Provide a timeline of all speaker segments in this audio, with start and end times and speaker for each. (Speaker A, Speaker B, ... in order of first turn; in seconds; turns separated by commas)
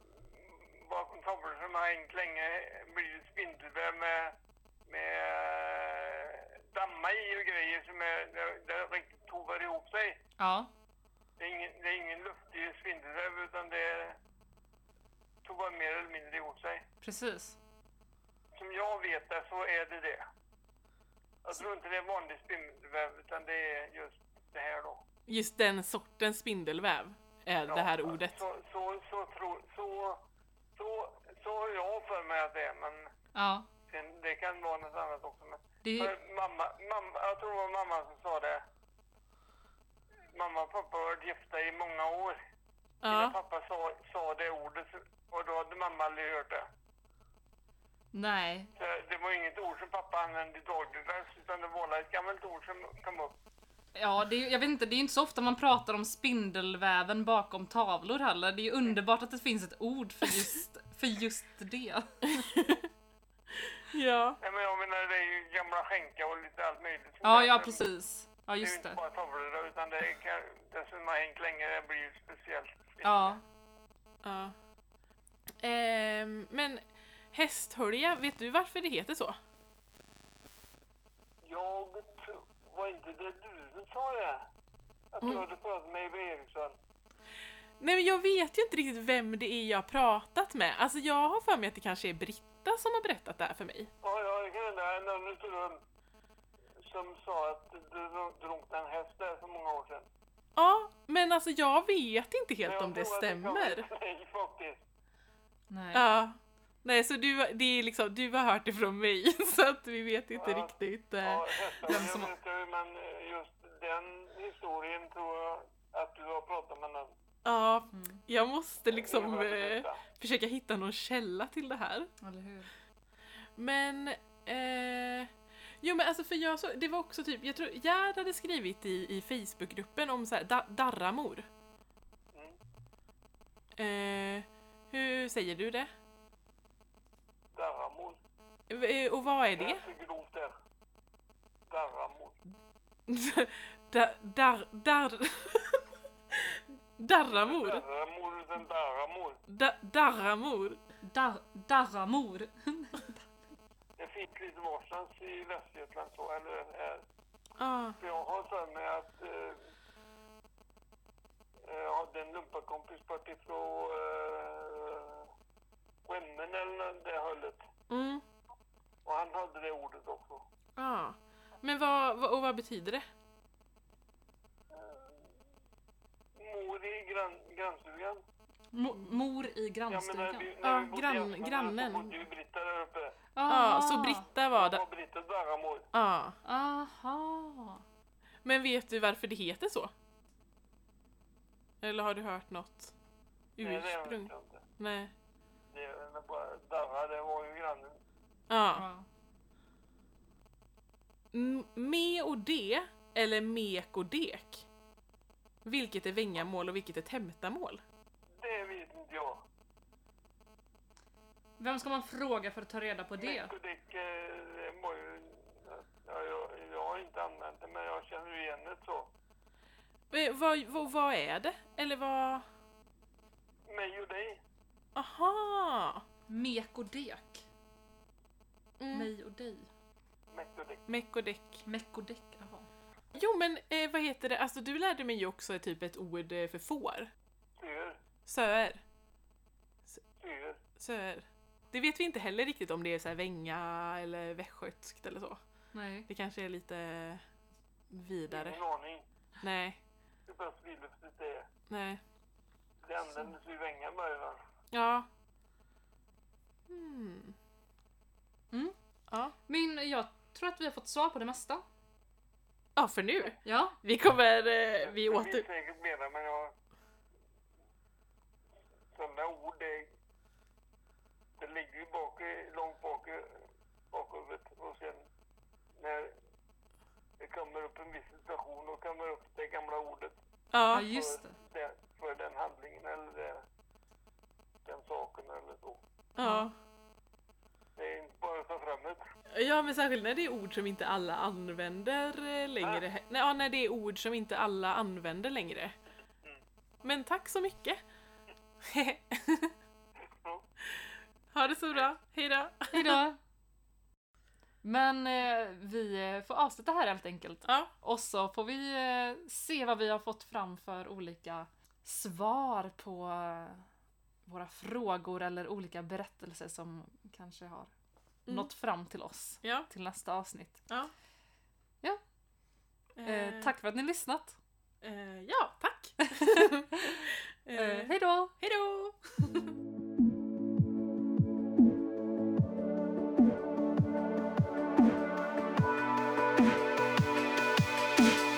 Speaker A: 0.7-10.2, Speaker B: 10.4-10.7, Speaker A: 11.4-14.2, Speaker A: 15.4-16.8, Speaker B: 17.0-17.6, Speaker A: 18.5-20.2, Speaker A: 21.4-25.0, Speaker C: 25.3-28.4, Speaker A: 27.6-30.2, Speaker A: 30.7-33.1, Speaker B: 33.3-33.7, Speaker A: 33.9-38.6, Speaker B: 35.8-36.1, Speaker A: 40.3-42.4, Speaker C: 43.0-43.4, Speaker A: 43.1-46.7, Speaker B: 48.1-48.7, Speaker A: 48.8-53.4, Speaker B: 53.9-62.5, Speaker C: 62.3-62.8, Speaker C: 63.8-64.4, Speaker A: 64.4-67.8, Speaker B: 67.2-69.0, Speaker A: 68.6-73.3, Speaker B: 73.0-73.4, Speaker C: 74.2-74.5, Speaker C: 75.6-79.4, Speaker A: 81.4-84.5, Speaker A: 85.1-86.8, Speaker C: 87.8-93.9, Speaker A: 94.0-95.8, Speaker A: 96.8-100.0, Speaker C: 100.5-103.8, Speaker A: 102.6-104.8, Speaker B: 105.7-106.0, Speaker C: 105.9-112.2, Speaker A: 110.3-117.1, Speaker B: 111.8-112.3, Speaker C: 117.4-122.1, Speaker B: 117.9-118.2, Speaker A: 118.9-120.0, Speaker B: 122.2-122.7, Speaker C: 123.6-131.4, Speaker C: 133.8-135.9, Speaker A: 137.5-138.2, Speaker C: 138.7-139.8, Speaker A: 139.5-140.5, Speaker A: 141.7-142.4, Speaker C: 143.1-147.8, Speaker A: 147.2-149.4, Speaker C: 149.5-150.8, Speaker B: 151.0-153.3, Speaker A: 154.0-157.0, Speaker C: 157.6-158.0, Speaker A: 158.0-159.6, Speaker A: 161.6-165.3, Speaker A: 166.0-167.6, Speaker C: 167.9-168.2, Speaker A: 169.0-170.4, Speaker C: 170.8-173.0, Speaker A: 174.7-175.2, Speaker A: 176.3-178.2, Speaker B: 178.7-180.5, Speaker A: 179.9-183.2, Speaker C: 180.6-182.1, Speaker B: 183.3-184.3, Speaker C: 183.5-184.8, Speaker A: 184.5-185.9, Speaker C: 185.9-186.4, Speaker B: 186.4-187.8, Speaker C: 188.4-189.9, Speaker C: 191.8-192.9, Speaker C: 193.6-195.1, Speaker A: 193.6-194.6, Speaker A: 195.7-198.0, Speaker C: 198.5-198.9, Speaker B: 198.7-199.1, Speaker C: 201.3-204.7, Speaker C: 205.6-207.8, Speaker A: 208.4-209.4, Speaker B: 211.6-213.5, Speaker A: 213.2-219.1, Speaker C: 220.1-222.4, Speaker A: 223.7-224.4, Speaker C: 224.9-226.0, Speaker B: 226.3-227.4, Speaker C: 228.8-229.1, Speaker B: 228.9-229.7, Speaker A: 230.3-230.8, Speaker C: 230.9-231.6, Speaker B: 231.7-232.7, Speaker C: 233.1-237.1, Speaker A: 237.6-238.0, Speaker C: 238.2-238.8, Speaker A: 240.2-240.6, Speaker C: 240.8-245.4, Speaker B: 245.7-246.1, Speaker C: 246.1-247.2, Speaker C: 247.9-248.6, Speaker A: 248.3-249.0, Speaker C: 249.4-249.8, Speaker A: 250.2-251.5, Speaker C: 251.7-252.0, Speaker A: 252.8-254.4, Speaker C: 254.7-255.1, Speaker C: 256.7-257.4, Speaker C: 259.1-259.3, Speaker B: 259.5-261.6, Speaker C: 262.8-265.4, Speaker B: 263.4-263.8, Speaker A: 264.8-266.5, Speaker A: 268.9-269.9, Speaker A: 271.4-275.1, Speaker A: 275.8-276.1, Speaker A: 277.2-280.1, Speaker C: 280.5-280.9, Speaker B: 280.7-281.4, Speaker A: 280.8-283.4, Speaker A: 284.6-285.8, Speaker C: 286.1-286.5, Speaker B: 286.2-286.5, Speaker A: 287.8-289.0, Speaker C: 289.3-295.7, Speaker C: 296.8-297.8, Speaker C: 298.6-299.5, Speaker C: 301.3-303.0, Speaker B: 302.7-303.2, Speaker B: 304.6-313.6, Speaker C: 307.4-307.7, Speaker B: 314.2-317.7, Speaker C: 318.2-318.5, Speaker B: 318.3-320.6, Speaker C: 319.4-319.7, Speaker C: 322.9-323.5, Speaker B: 323.0-324.4, Speaker C: 324.8-329.3, Speaker B: 326.0-327.0, Speaker B: 327.6-328.3